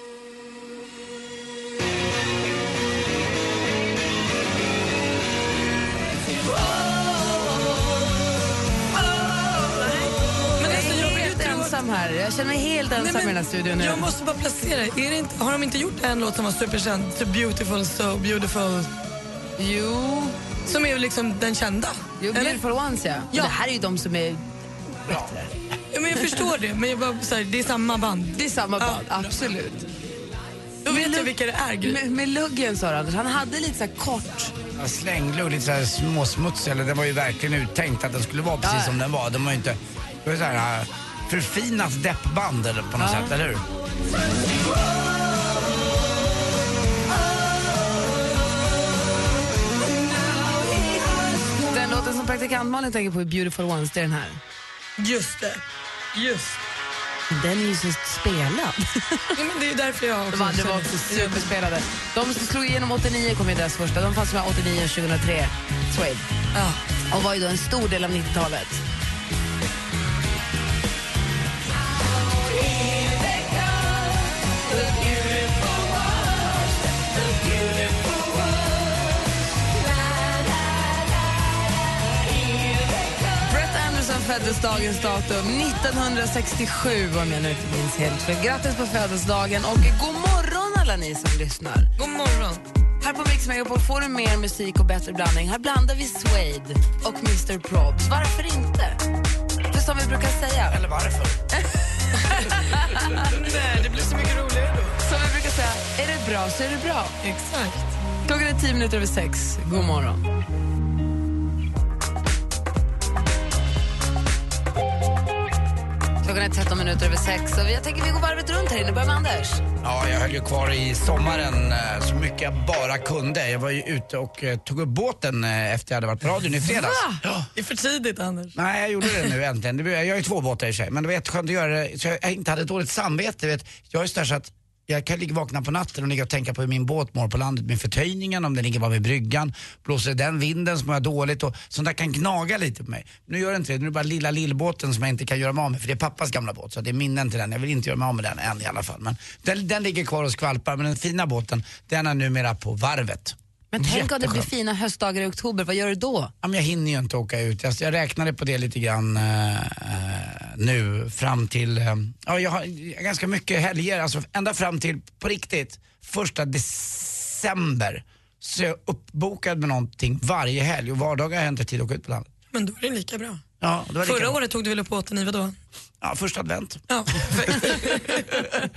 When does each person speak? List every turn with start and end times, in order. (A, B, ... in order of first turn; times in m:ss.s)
0:10.6-0:11.7 A
0:10.6-0:14.1 B
0:13.0-0:18.9 A
0:19.6-0:20.4 B
0:20.6-0:22.6 A
0:22.2-0:24.4 B
0:25.1-0:25.4 B
0:25.1-0:25.5 C
0:25.9-0:29.3 A
0:28.3-0:29.8 B
0:30.8-0:32.0 A
0:30.8-0:34.5 B
0:34.7-0:43.6 C
0:38.6-0:39.0 B
0:43.0-0:43.4 B
0:51.7-0:54.4 B
0:55.0-0:56.6 A
0:57.3-0:59.3 B
0:59.4-1:01.5 A
1:00.3-1:06.3 B
1:06.5-1:06.8 A
1:07.1-1:08.8 B
1:23.4-1:31.9 B
1:32.0-1:32.6 A
1:33.0-1:39.0 B
1:39.7-1:40.8 B
1:40.7-1:41.4 C
1:41.5-1:43.3 B
1:42.3-1:45.0 A
1:45.0-1:47.2 B
1:47.2-1:47.9 A
1:48.2-1:50.2 B
1:56.2-1:59.6 B
1:59.8-2:07.5 C
2:06.7-2:07.2 B
2:07.5-2:09.2 A
2:08.6-2:34.5 C
2:33.7-2:36.3 B
2:36.4-2:52.3 C
2:52.5-2:53.4 A
2:53.6-2:54.4 C
2:54.0-2:55.6 A
2:56.0-2:56.8 C
2:56.9-2:58.5 A
2:57.5-2:58.2 C